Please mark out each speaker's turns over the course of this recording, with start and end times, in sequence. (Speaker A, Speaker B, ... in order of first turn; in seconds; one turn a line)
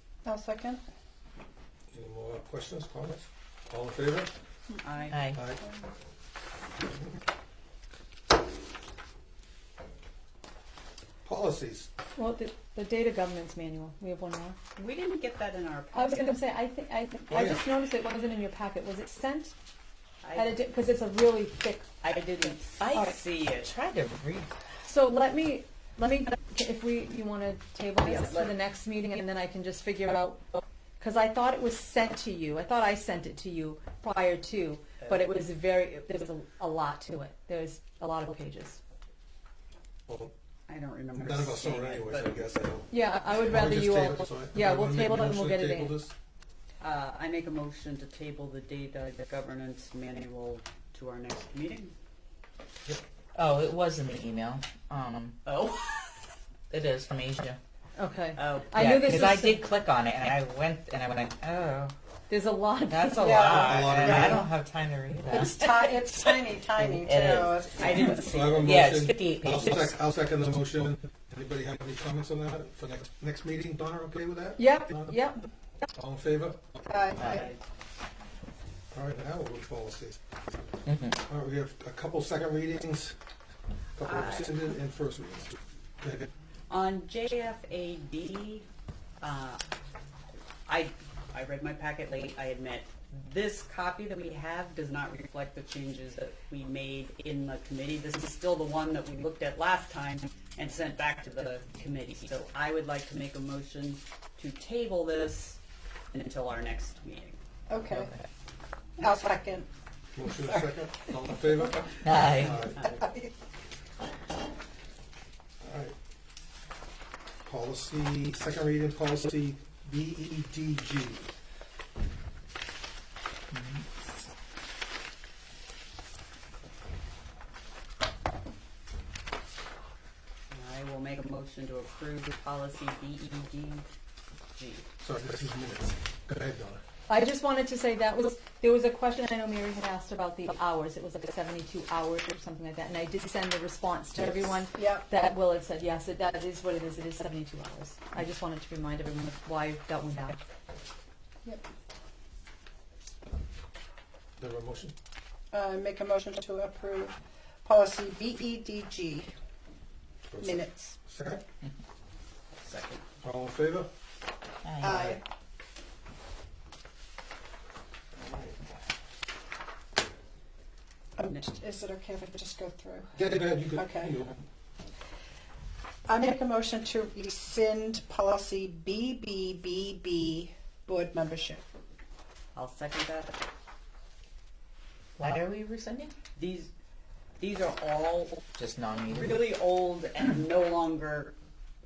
Speaker A: 0.2-0.8
Speaker B: 1.9-4.3
Speaker C: 4.8-5.3
Speaker D: 5.1-5.4
Speaker B: 5.3-5.6
Speaker B: 6.8-7.2
Speaker B: 11.2-11.9
Speaker E: 12.2-14.6
Speaker C: 14.8-16.4
Speaker E: 15.9-19.6
Speaker B: 17.3-17.6
Speaker C: 20.2-20.6
Speaker E: 20.3-21.9
Speaker C: 22.0-23.7
Speaker D: 22.8-24.5
Speaker E: 24.8-30.4
Speaker C: 28.0-28.5
Speaker E: 31.0-38.8
Speaker B: 40.1-40.3
Speaker C: 40.7-42.5
Speaker B: 41.1-46.1
Speaker E: 42.9-46.0
Speaker C: 46.8-51.9
Speaker D: 53.3-55.4
Speaker C: 55.4-56.2
Speaker D: 56.7-57.6
Speaker E: 58.0-59.6
Speaker C: 58.4-59.5
Speaker D: 58.7-61.9
Speaker E: 62.3-63.3
Speaker D: 62.9-65.9
Speaker A: 63.2-64.4
Speaker B: 63.3-64.5
Speaker A: 65.3-68.2
Speaker D: 67.0-67.6
Speaker C: 67.8-68.9
Speaker B: 68.2-75.2
Speaker D: 68.7-69.9
Speaker E: 74.6-75.5
Speaker B: 75.9-76.8
Speaker A: 76.8-77.5
Speaker C: 77.2-77.6
Speaker B: 78.9-80.2
Speaker D: 80.8-81.2
Speaker B: 81.0-83.2
Speaker B: 84.0-86.3
Speaker C: 84.0-84.5
Speaker C: 86.7-88.7
Speaker C: 89.2-89.6
Speaker C: 90.7-105.6
Speaker C: 106.1-107.4
Speaker A: 107.7-108.1
Speaker A: 109.0-109.7
Speaker B: 110.1-112.9
Speaker A: 110.2-110.8
Speaker D: 112.0-112.6
Speaker A: 112.8-113.3
Speaker B: 115.6-115.9
Speaker B: 117.5-121.3
Speaker D: 123.5-123.8
Speaker C: 130.5-133.8
Speaker C: 134.5-134.8
Speaker B: 135.0-136.8
Speaker E: 137.1-150.4
Speaker A: 144.7-145.1
Speaker B: 154.4-154.9
Speaker A: 155.5-159.3
Speaker B: 160.3-161.4
Speaker A: 160.4-161.0
Speaker C: 162.5-163.0
Speaker B: 163.2-163.9
Speaker D: 164.6-165.2
Speaker A: 164.8-165.2
Speaker B: 168.2-168.6
Speaker A: 171.2-173.2
Speaker B: 173.2-174.4
Speaker A: 173.7-174.2
Speaker A: 176.1-181.6
Speaker C: 182.5-183.4
Speaker D: 185.2-186.1
Speaker C: 186.4-186.7
Speaker C: 187.4-188.5
Speaker D: 188.6-189.4
Speaker C: 189.0-191.3